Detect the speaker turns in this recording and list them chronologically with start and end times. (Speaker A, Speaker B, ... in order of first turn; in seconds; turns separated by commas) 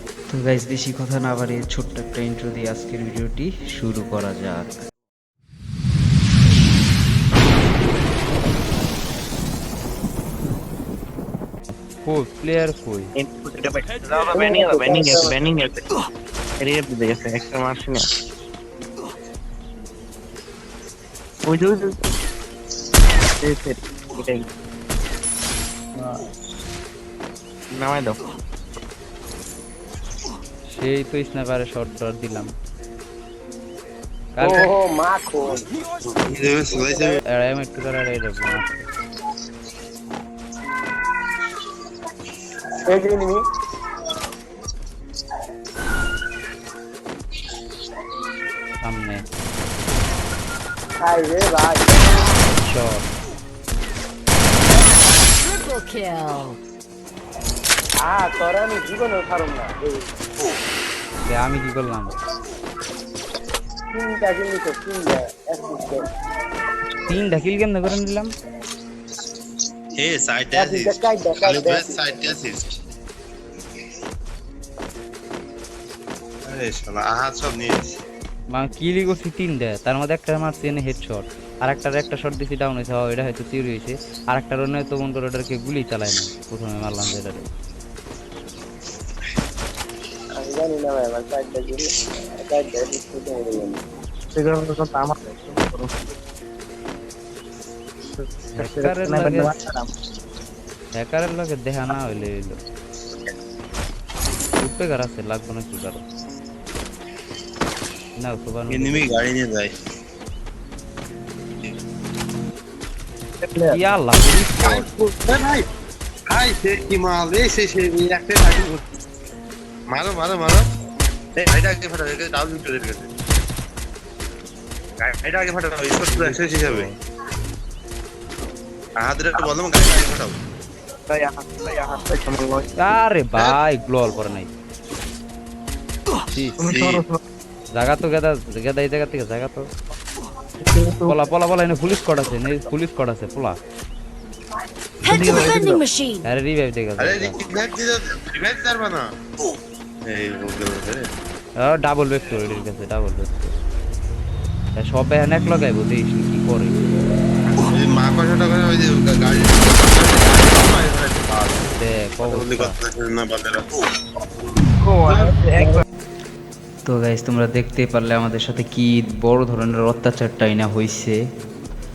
Speaker A: 0.3-4.7, Speaker B: 12.0-13.1, Speaker C: 13.2-15.8, Speaker D: 14.3-15.3, Speaker C: 16.6-18.1, Speaker C: 21.4-22.0, Speaker C: 23.4-24.5, Speaker C: 27.7-28.2, Speaker B: 30.7-32.5, Speaker B: 34.4-34.7, Speaker D: 34.4-35.7, Speaker E: 36.1-37.2, Speaker D: 36.8-37.2, Speaker B: 37.2-38.9, Speaker D: 42.9-43.4, Speaker B: 48.8-49.2, Speaker D: 51.0-52.2, Speaker B: 52.6-53.0, Speaker F: 55.4-56.6, Speaker D: 58.0-60.1, Speaker B: 61.2-62.2, Speaker D: 63.9-66.0, Speaker B: 67.0-68.3, Speaker E: 70.0-72.7, Speaker D: 70.5-72.0, Speaker E: 76.5-78.0, Speaker B: 78.5-87.4, Speaker D: 90.4-93.8, Speaker C: 94.3-96.1, Speaker C: 98.1-99.9, Speaker B: 98.6-99.5, Speaker B: 100.9-102.6, Speaker B: 104.6-106.0, Speaker B: 108.2-109.2, Speaker E: 108.7-109.7, Speaker C: 113.4-113.8, Speaker B: 113.7-114.9, Speaker E: 114.6-115.6, Speaker E: 116.3-118.8, Speaker E: 119.9-120.6, Speaker E: 121.3-123.1, Speaker E: 125.0-126.9, Speaker B: 126.1-126.9, Speaker E: 129.0-130.3, Speaker C: 131.1-132.7, Speaker B: 132.8-134.5, Speaker B: 136.3-136.6, Speaker C: 136.6-137.2, Speaker E: 136.7-137.0, Speaker B: 137.7-139.7, Speaker C: 140.6-141.2, Speaker B: 141.1-143.6, Speaker F: 145.0-146.2, Speaker C: 145.0-145.8, Speaker B: 146.2-147.4, Speaker E: 147.0-149.1, Speaker E: 150.1-151.1, Speaker B: 151.6-153.5, Speaker B: 154.8-156.8, Speaker E: 157.6-161.7, Speaker B: 161.7-162.7, Speaker E: 162.2-163.7, Speaker C: 164.8-165.8, Speaker E: 165.1-165.3, Speaker A: 166.8-171.2